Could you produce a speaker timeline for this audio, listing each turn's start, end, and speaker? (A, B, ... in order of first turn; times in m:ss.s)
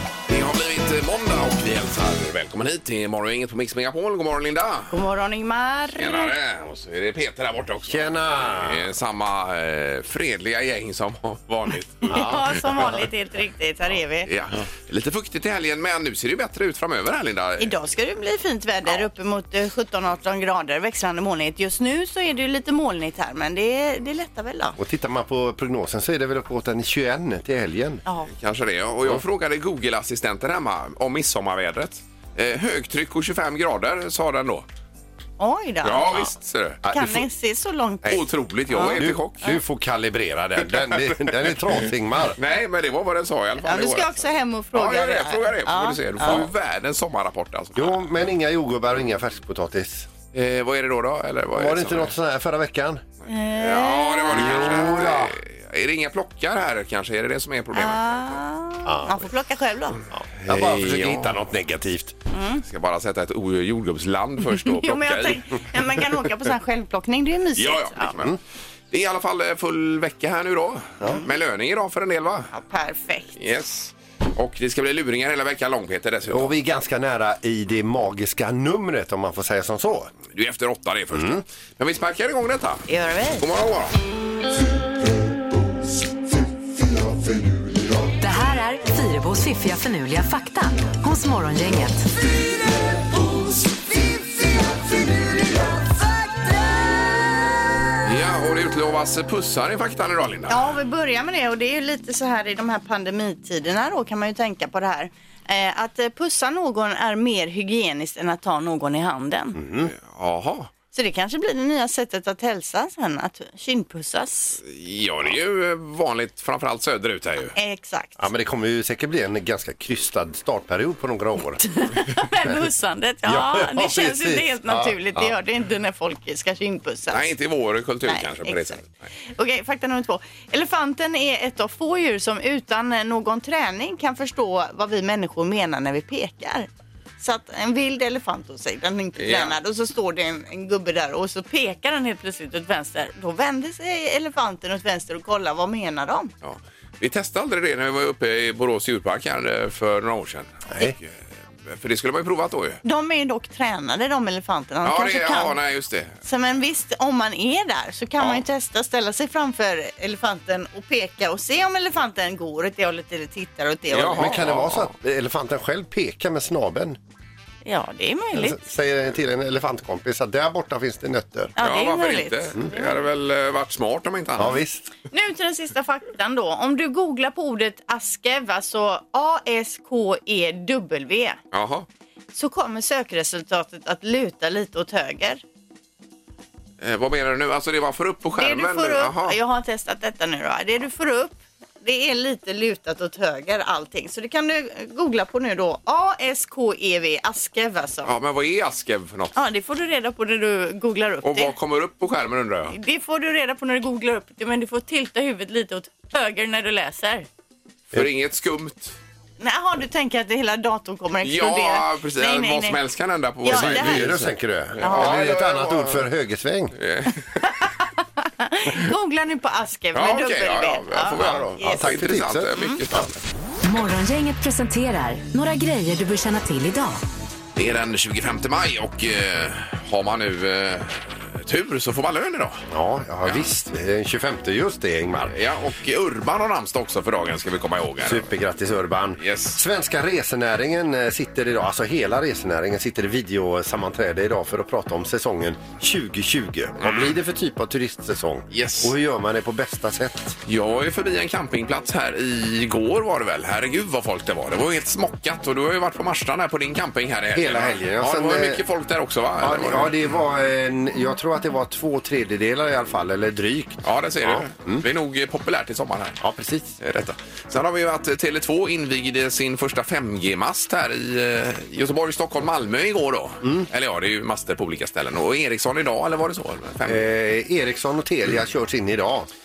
0:00.3-0:05.0 A
0:04.9-0:06.3 B
0:06.0-0:12.5 A
0:07.9-0:08.9 C
0:12.1-0:14.3 B
0:12.1-0:12.4 C
0:14.3-0:17.8 A
0:17.6-0:24.8 B
0:24.8-0:28.0 C
0:28.3-0:34.7 A
0:35.4-0:36.1 B
0:35.8-0:36.8 A
0:36.8-0:37.3 C
0:36.9-0:39.6 B
0:38.1-0:39.4 A
0:38.9-0:42.4 C
0:42.4-0:48.1 A
0:43.6-0:46.5 B
0:46.2-0:46.5 C
0:47.8-0:50.1 C
0:50.3-0:52.1 A
0:51.6-0:53.0 C
0:53.2-0:58.4 A
0:53.3-0:55.0 B
0:54.3-0:55.4 C
0:57.7-1:00.0 B
0:58.9-0:59.3 C
1:00.1-1:02.2 C
1:00.4-1:01.4 A
1:02.3-1:02.6 B
1:02.6-1:05.4 A
1:04.6-1:08.1 B
1:07.6-1:08.4 A
1:08.9-1:12.5 A
1:12.5-1:13.3 B
1:13.4-1:16.5 A
1:16.3-1:20.1 C
1:20.3-1:22.9 A
1:21.1-1:21.4 C
1:22.9-1:23.4 B
1:23.4-1:24.0 A
1:28.2-1:32.1 D
1:38.0-1:40.7 A
1:40.5-1:49.6 B
1:49.6-1:49.9 C
1:49.8-1:50.7 A
1:50.9-1:54.6 B
1:54.6-1:57.6 A
1:57.6-1:58.2 B
1:58.2-2:01.6 C
2:01.6-2:07.3 B
2:03.2-2:05.3 C
2:07.1-2:09.0 A
2:08.1-2:16.7 B
2:17.2-2:26.3 B
2:19.2-2:19.6 A
2:26.4-2:32.8 A
2:32.8-2:35.6 B
2:34.8-2:36.2 A
2:36.2-2:44.4 B
2:43.9-2:44.9 A
2:44.1-2:47.0 C
2:47.6-2:48.6 B
2:48.3-2:51.5 C
2:51.6-2:52.9 B
2:51.6-2:54.6 A
2:54.4-2:54.9 C
2:55.1-3:01.4 B
3:01.5-3:01.9 A
3:02.4-3:05.4 B
3:06.8-3:09.4 A
3:08.4-3:18.1 B
3:18.0-3:19.4 A
3:19.4-3:21.5 B
3:21.2-3:22.8 A
3:22.7-3:27.3 B
3:27.9-3:29.0 A
3:29.4-3:32.8 B
3:31.2-3:36.1 A
3:33.4-3:34.1 B
3:33.5-3:36.8 C
3:34.8-3:35.2 B
3:36.8-3:37.4 A
3:37.6-3:41.8 B
3:39.9-3:43.2 A
3:41.7-3:43.1 C
3:43.6-3:47.0 D
3:47.6-3:52.6 A
3:52.7-3:55.3 C
3:55.3-3:58.3 A
3:58.0-4:10.4 C
3:59.2-3:59.6 A
4:06.8-4:07.1 A
4:08.5-4:08.9 A
4:10.5-4:19.9 A
4:17.3-4:18.6 C
4:19.4-4:24.8 C
4:23.8-4:26.2 A
4:26.2-4:26.8 C
4:26.8-4:37.1 A
4:36.8-4:39.3 C